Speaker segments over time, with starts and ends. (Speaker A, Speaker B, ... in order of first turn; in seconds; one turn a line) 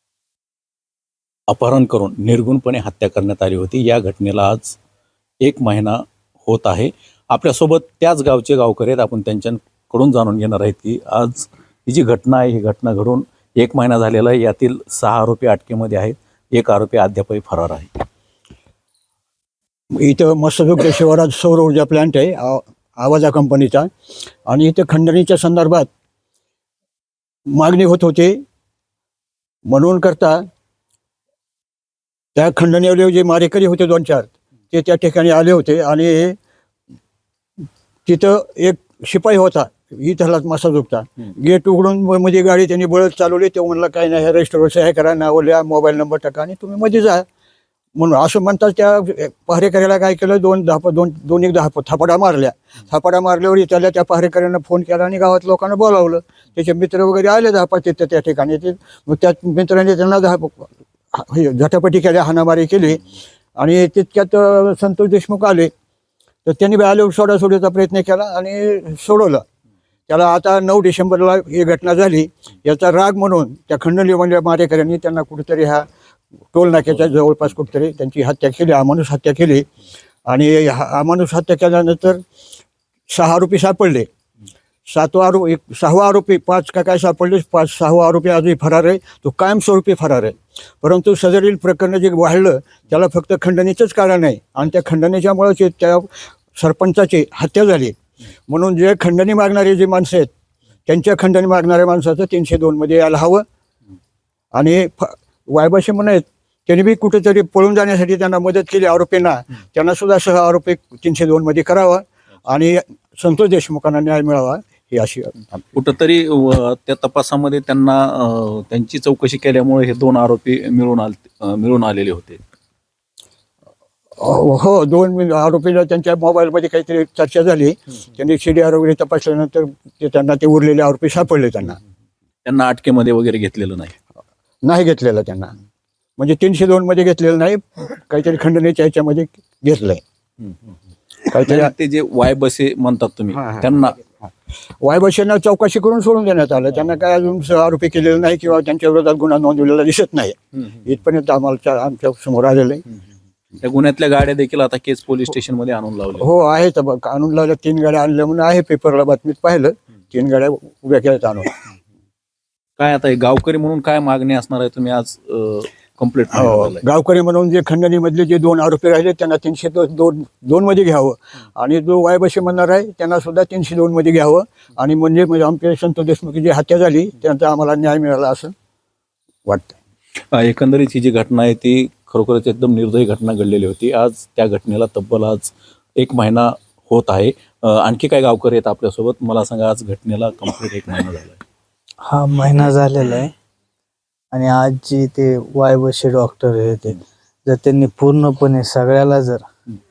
Speaker A: 1.5-4.8
Speaker A: 5.4-17.9
Speaker B: 20.0-23.9
Speaker B: 24.5-25.9
Speaker B: 27.5-28.4
Speaker B: 29.7-30.4
Speaker B: 32.4-36.4
Speaker B: 38.1-47.3
Speaker B: 48.0-65.7
Speaker B: 66.5-69.4
Speaker B: 70.1-75.8
Speaker B: 76.5-79.7
Speaker B: 80.3-82.2
Speaker B: 83.1-84.1
Speaker B: 84.9-98.0
Speaker B: 98.5-100.3
Speaker B: 100.9-103.5
Speaker B: 104.5-115.4
Speaker A: 115.5-122.4
Speaker B: 124.2-131.8
Speaker A: 132.4-133.9
Speaker B: 134.6-135.5
Speaker B: 136.2-140.0
Speaker B: 141.3-141.7
Speaker A: 141.4-144.0
Speaker B: 143.4-143.7
Speaker B: 144.8-152.8
Speaker A: 153.6-156.3
Speaker B: 156.2-161.5
Speaker A: 162.8-166.8
Speaker B: 166.3-178.5
Speaker A: 180.3-191.4
Speaker C: 192.0-193.3
Speaker C: 194.3-199.4